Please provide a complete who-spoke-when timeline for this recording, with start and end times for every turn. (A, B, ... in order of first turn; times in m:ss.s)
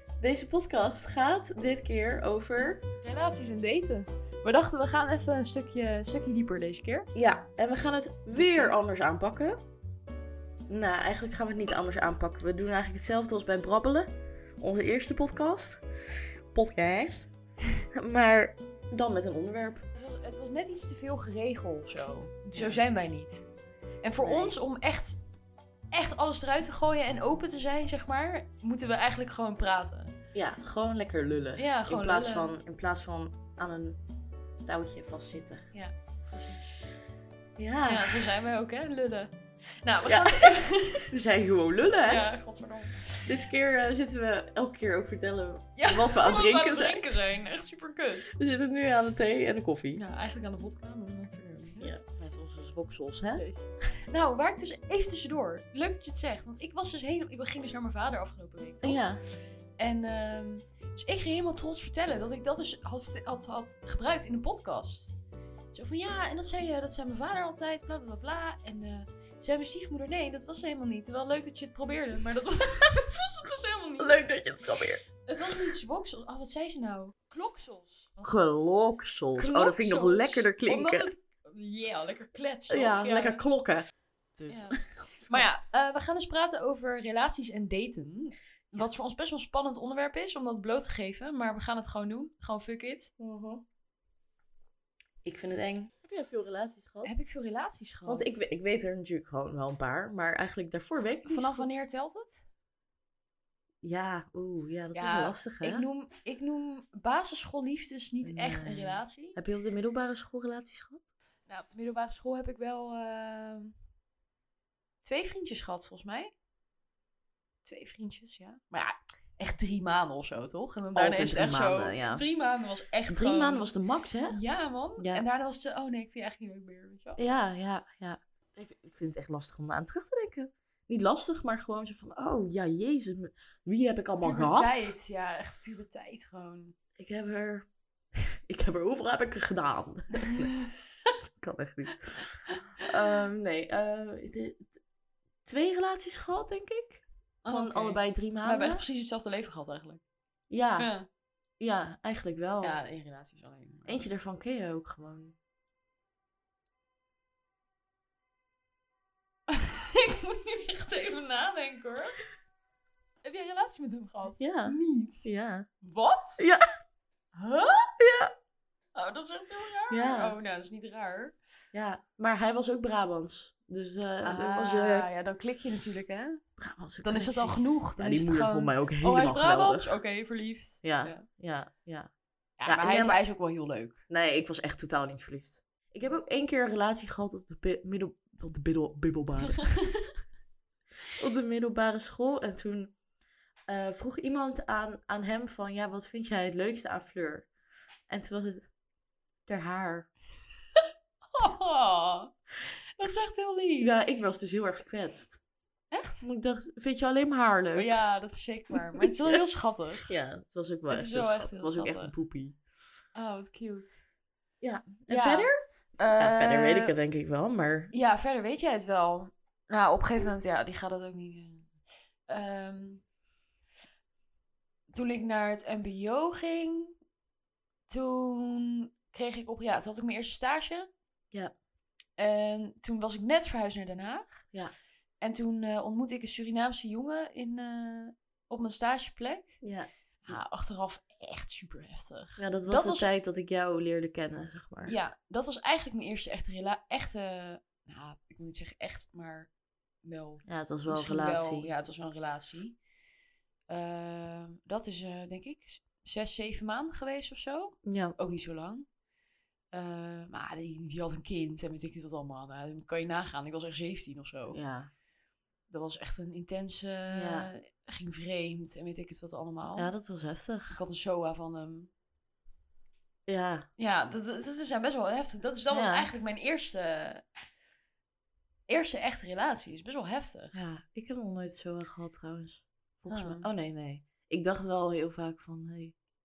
0:00.2-0:02.8 A
0:03.0-0:07.1 B
0:07.2-0:09.6 A
0:08.4-0:08.7 B
0:10.7-0:14.1 A
0:14.6-0:15.8 A
0:16.5-0:17.3 A
0:17.9-0:19.9 A
0:20.0-0:25.2 B
0:22.5-0:22.8 A
0:24.2-0:24.6 A
0:25.9-0:30.2 B
0:30.3-0:34.0 A
0:31.6-0:32.5 B
0:34.7-0:35.7 A
0:35.7-0:36.9 B
0:37.6-0:38.3 A
0:37.9-0:41.1 B
0:40.0-0:42.3 A
0:42.0-0:43.5 B
0:43.2-0:47.1 A
0:45.8-0:48.4 B
0:48.4-0:50.0 A
0:50.0-0:51.9 B
0:51.8-0:53.5 A
0:53.3-0:59.2 B
0:58.8-0:59.2 A
0:59.8-1:05.1 B
1:05.7-1:14.3 B
1:14.0-1:15.0 A
1:15.2-1:18.7 B
1:18.2-1:21.1 A
1:19.4-1:23.4 B
1:22.7-1:23.9 A
1:24.4-1:25.5 A
1:24.5-1:33.1 B
1:33.2-1:33.6 A
1:35.2-1:37.1 A
1:37.0-1:38.5 B
1:38.1-1:41.8 A
1:41.2-1:42.5 B
1:43.8-1:45.9 A
1:44.9-1:49.4 B
1:48.2-1:51.1 A
1:51.5-1:53.8 B
1:55.0-1:56.3 B
1:57.6-2:03.7 B
2:01.0-2:02.2 A
2:03.1-2:04.4 A
2:04.3-2:07.2 B
2:05.0-2:05.2 A
2:07.2-2:14.9 A
2:14.2-2:16.8 B
2:17.0-2:20.5 A
2:21.4-2:24.8 A
2:25.4-2:28.8 A
2:27.4-2:30.0 B
2:30.5-2:30.9 A
2:30.8-2:31.1 B
2:31.6-2:32.8 A
2:32.6-2:34.1 B
2:33.9-2:35.4 A
2:39.5-2:42.2 B
2:43.2-2:46.4 B
2:44.4-2:45.7 A
2:46.4-2:46.7 A
2:47.3-2:47.9 B
2:48.0-2:48.3 A
2:48.9-2:51.4 B
2:49.9-2:50.4 A
2:51.7-2:55.1 A
2:54.2-2:56.4 B
2:56.6-3:00.0 A
2:57.0-3:01.3 B
3:00.8-3:02.1 A
3:02.6-3:04.0 B
3:02.7-3:03.2 A
3:04.1-3:09.8 A
3:11.1-3:13.0 A
3:13.7-3:17.5 A
3:18.1-3:18.7 A
3:19.5-3:20.1 A
3:20.8-3:22.3 B
3:23.0-3:23.9 B
3:23.8-3:25.4 A
3:25.9-3:26.3 B
3:26.2-3:28.0 A
3:27.8-3:30.1 B
3:28.7-3:29.4 A
3:30.0-3:32.6 A
3:30.9-3:32.1 B
3:33.2-3:34.0 B
3:34.6-3:35.6 A
3:35.1-3:37.0 B
3:36.2-3:37.9 A
3:37.9-3:41.7 B
3:42.3-3:43.0 B
3:44.9-3:47.0 B
3:47.9-3:50.9 B
3:52.2-3:54.5 B
3:55.2-3:59.6 B
3:59.6-3:59.9 A
4:00.2-4:03.1 B
4:02.4-4:05.0 A
4:04.9-4:09.5 B
4:10.0-4:12.8 B
4:10.5-4:11.7 A
4:13.7-4:18.9 B
4:17.8-4:18.2 A
4:19.7-4:24.6 B
4:24.5-4:24.9 A
4:25.7-4:29.9 B
4:27.1-4:27.5 A
4:29.8-4:30.8 A
4:30.7-4:31.9 B
4:33.3-4:33.7 A
4:33.8-4:37.3 B
4:35.7-4:36.1 A
4:38.7-4:40.6 B
4:40.5-4:46.0 A
4:43.1-4:43.5 B